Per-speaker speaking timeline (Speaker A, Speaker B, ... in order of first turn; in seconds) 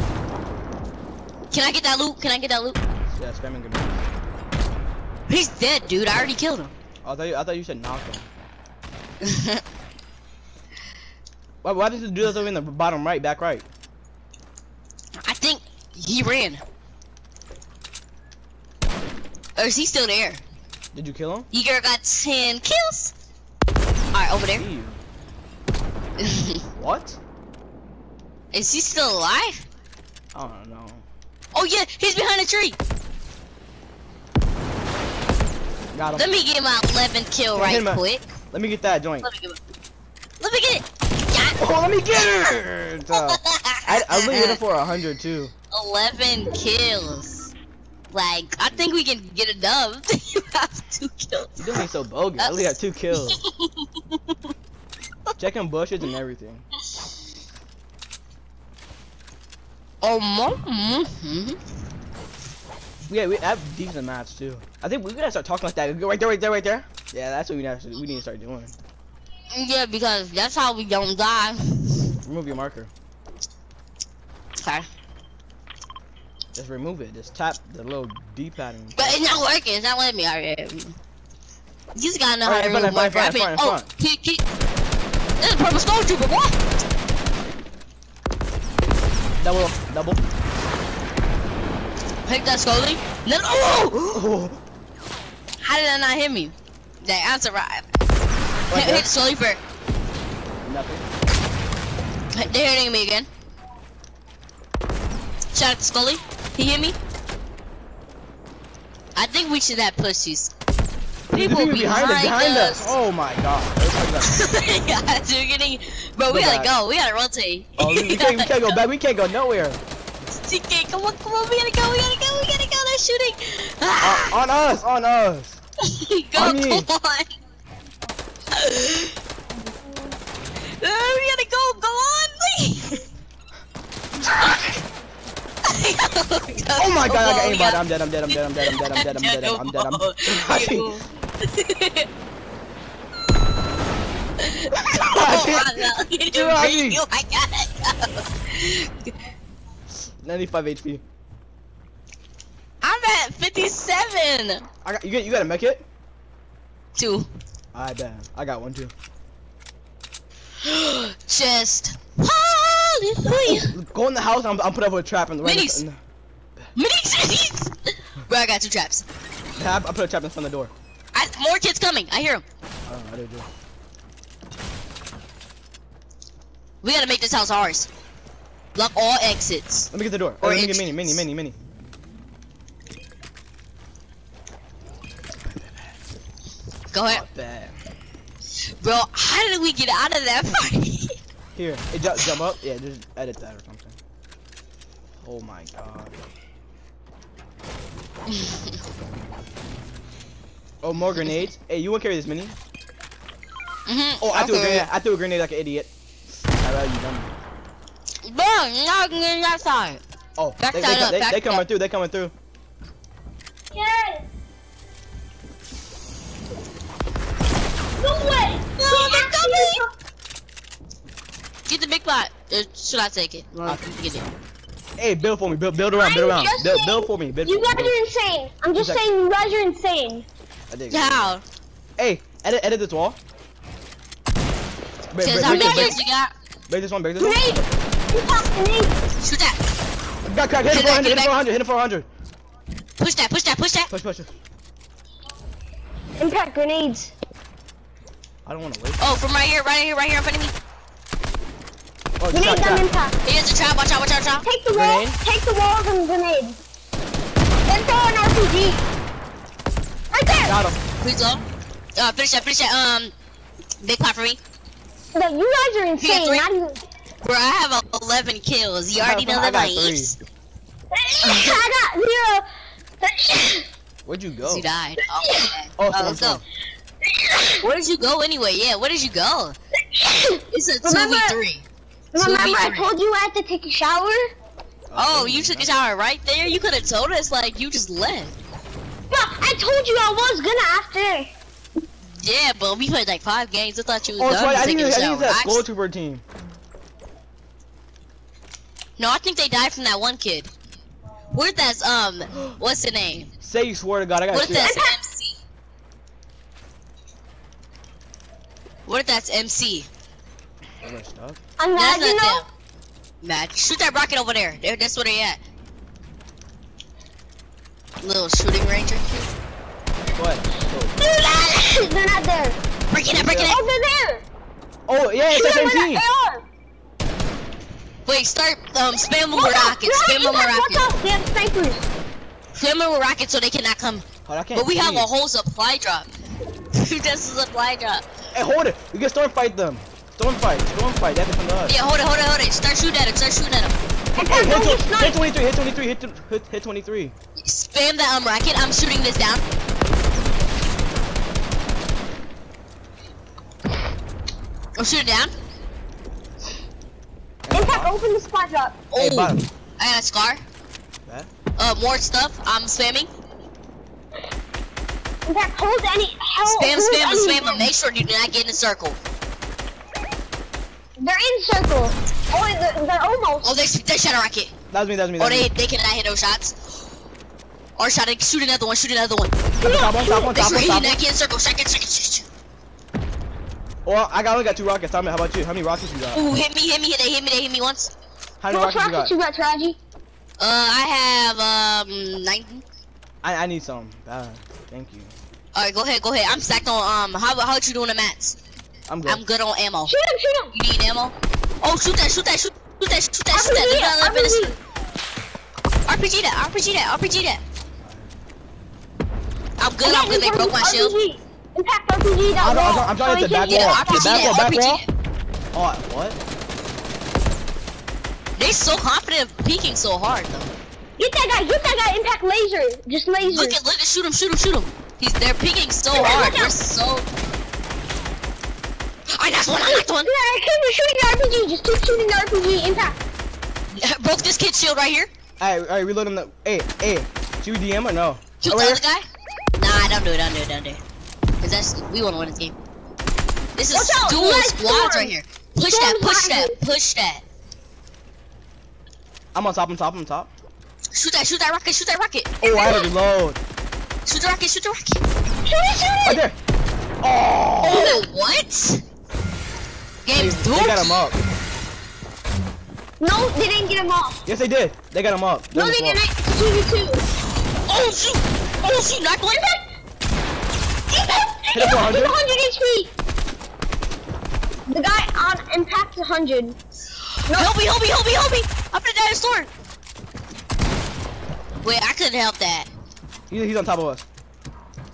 Speaker A: 1.5-2.8, 5.3-6.7, 9.2-9.6, 15.2-16.6, 19.6-20.4, 21.5-23.1, 24.1-24.6, 26.2-26.6, 28.5-29.6, 31.5-32.8, 36.1-38.3, 39.2-39.6, 40.4-41.6, 43.1-44.6, 45.7-47.5, 48.1-51.8, 53.2-54.4, 60.0-61.6, 69.5-72.1, 74.6-74.9, 79.0-80.9, 81.9-84.4, 85.4-86.6, 92.2-94.2, 95.6-97.8, 98.7-99.6, 102.3-103.3, 105.5-107.0, 109.2-110.5, 111.3-112.9, 114.2-118.7, 120.4-124.3, 125.8-127.3, 128.5-129.2, 130.8-133.0, 135.6-142.1, 144.4-149.1, 152.8-154.7, 156.9-157.3, 160.6-163.7, 165.4-165.8, 166.7-169.0, 171.1-172.4, 176.8-177.9, 178.7-179.9, 180.4-181.2, 186.9-187.2, 188.8-191.2, 198.3-198.7, 203.8-204.9, 208.2-210.0, 210.6-211.6, 218.8-219.8, 221.7-224.3, 230.9-231.4, 235.2-236.3, 239.2-239.6, 240.7-241.3, 243.0-243.9, 249.0-250.5, 253.2-254.4, 261.0-261.4, 262.0-263.1, 263.8-264.4, 266.0-266.4, 267.2-270.1, 271.2-271.6, 274.4-276.4, 277.6-279.6, 280.5-281.6, 282.2-282.9, 284.9-288.4, 292.1-295.6, 299.0-300.5, 301.3-303.3, 304.3-305.4, 308.9-309.9, 311.8-312.4, 313.2-315.4, 318.0-319.3, 322.9-323.6, 328.1-331.0, 332.6-336.1, 336.7-338.0, 341.7-343.8, 347.4-349.4, 354.8-355.3, 358.9-360.4, 361.6-363.1, 366.4-369.0, 373.4-374.5, 375.2-376.6, 377.8-379.3, 380.3-382.2, 386.1-387.9, 390.4-392.6, 395.5-398.4, 399.1-399.9, 400.5-404.5, 405.9-407.4, 409.6-410.9, 413.4-414.9, 418.4-420.5, 423.2-427.1, 429.1-430.1, 433.7-435.1, 438.4-439.1, 439.6-440.8, 441.4-442.5, 443.6-447.2, 450.9-452.9, 454.0-455.0, 457.6-458.8, 460.0-460.9, 467.6-469.4, 470.9-471.2, 477.2-479.5, 481.6-482.7
Speaker B: 3.1-4.0, 7.0-8.3, 11.6-13.7, 20.9-21.5, 24.6-25.0, 26.7-27.2, 30.3-31.0, 35.9-36.3, 37.5-39.3, 41.6-45.5, 51.6-53.4, 55.4-56.6, 63.1-68.8, 72.2-72.9, 76.5-79.4, 82.4-83.9, 89.4-90.2, 94.1-94.6, 98.7-99.1, 100.6-101.0, 111.3-114.3, 116.2-116.7, 117.8-119.8, 124.0-125.6, 126.3-126.9, 136.8-140.9, 144.7-147.0, 149.9-151.0, 154.8-155.8, 157.7-158.9, 163.4-166.0, 169.5-170.7, 172.8-173.5, 179.9-181.6, 185.4-186.0, 187.0-187.8, 191.5-194.0, 195.2-196.2, 200.8-202.6, 204.2-207.3, 210.4-212.3, 225.0-227.9, 228.7-229.0, 230.7-231.3, 232.0-233.2, 235.1-236.0, 236.7-237.4, 240.2-242.1, 243.9-244.3, 248.4-249.0, 252.2-252.9, 254.7-255.2, 260.4-260.8, 268.9-270.1, 274.1-274.7, 275.8-276.4, 284.9-285.7, 294.1-296.2, 303.4-304.8, 310.8-311.4, 320.1-320.9, 323.1-323.5, 324.9-326.0, 334.2-335.1, 338.3-341.8, 344.1-347.1, 357.4-357.9, 358.9-359.4, 374.7-375.5, 379.6-381.0, 383.8-386.3, 388.4-389.1, 393.2-395.1, 398.9-399.2, 407.8-408.1, 412.4-414.8, 415.5-416.2, 435.4-438.8, 449.3-450.3, 452.4-453.4, 456.0-456.4, 457.0-457.9, 460.1-461.2, 464.2-466.0, 471.5-472.2, 483.3-484.1
Speaker C: 213.7-214.3, 218.0-219.9, 225.9-230.2, 235.4-236.0, 237.2-238.9, 246.2-247.1, 252.3-253.2, 254.4-256.6, 257.6-258.8, 260.1-260.6, 265.1-266.8, 270.9-272.4, 273.0-273.7, 275.1-275.5, 277.1-277.6, 279.9-281.4, 282.1-284.2, 289.1-291.3, 304.5-304.9, 311.6-312.4, 321.0-322.6, 323.4-324.2, 325.3-326.4, 329.3-331.8, 344.1-345.2, 357.5-358.9, 365.2-367.7, 371.0-373.5, 379.6-380.4, 388.5-389.8, 399.9-400.5, 403.3-404.6, 409.8-414.5, 421.0-423.6, 425.9-426.6, 429.7-433.0, 443.7-446.6, 455.4-456.2, 457.7-458.1, 463.0-464.2, 465.5-467.0, 469.3-469.6, 470.9-472.9, 474.7-476.6, 477.3-477.5